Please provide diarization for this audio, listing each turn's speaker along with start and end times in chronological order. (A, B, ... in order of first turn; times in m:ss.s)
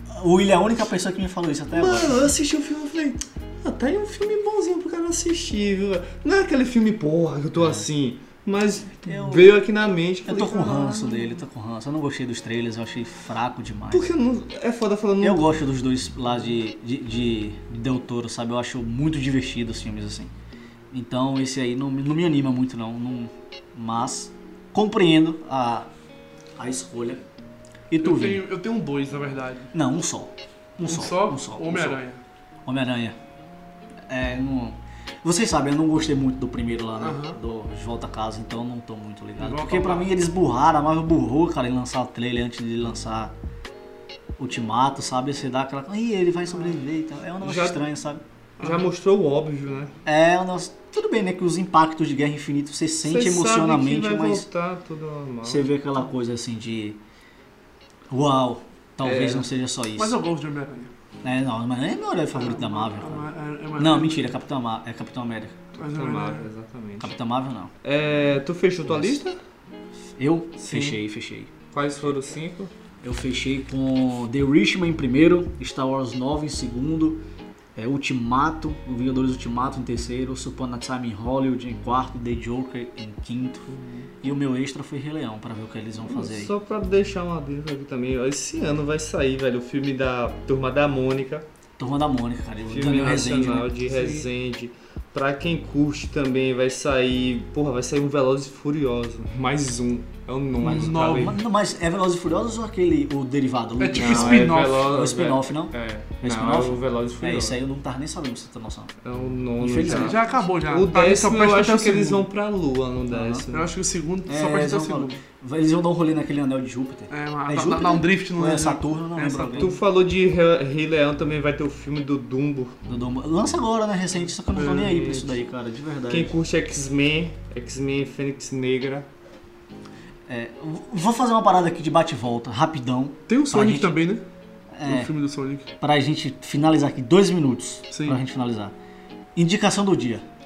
0:00.1-0:02.3 A
0:01.7-0:11.4 B
0:07.6-0:07.8 A
0:09.0-0:09.6 A
0:10.2-0:14.1 A
0:13.9-0:15.4 B
0:15.2-0:20.3 A
0:20.9-0:25.9 A
0:26.6-0:27.2 A
0:27.9-0:28.4 A
0:28.0-0:29.7 C
0:29.7-0:32.0 A
0:30.8-0:32.2 C
0:32.6-0:33.2 A
0:34.1-0:43.3 A
0:37.0-0:37.4 C
0:39.4-0:40.1 C
0:44.4-0:48.2 A
0:47.4-0:47.8 B
0:48.6-0:48.9 C
0:48.6-0:50.0 B
0:50.0-0:54.5 A
0:53.0-0:55.7 B
0:55.4-0:57.0 A
0:58.1-1:00.2 A
0:59.0-0:59.5 B
0:59.9-1:00.9 C
1:01.2-1:05.6 A
1:02.3-1:04.3 C
1:05.8-1:07.1 B
1:05.8-1:06.5 C
1:07.0-1:07.7 A
1:07.8-1:09.4 B
1:08.8-1:09.2 A
1:10.2-1:11.5 A
1:10.6-1:11.0 B
1:11.7-1:12.7 B
1:13.0-1:17.2 A
1:17.8-1:26.5 A
1:23.7-1:24.1 B
1:26.0-1:31.4 B
1:31.8-1:33.7 A
1:32.6-1:41.4 B
1:33.8-1:34.3 C
1:40.6-1:48.9 A
1:40.6-1:41.4 C
1:43.8-1:44.9 C
1:43.9-1:47.6 B
1:49.0-1:53.7 B
1:49.6-1:50.3 A
1:49.6-1:52.3 C
1:53.1-1:53.4 A
1:53.5-1:55.2 C
1:54.3-1:59.8 A
1:57.1-1:59.7 C
1:59.6-2:02.8 B
2:02.9-2:06.3 A
2:04.5-2:05.3 C
2:06.1-2:09.1 B
2:10.3-2:13.9 A
2:13.3-2:14.2 C
2:14.7-2:15.1 A
2:14.8-2:15.7 C
2:15.8-2:18.7 A
2:17.9-2:18.2 C
2:19.4-2:20.2 A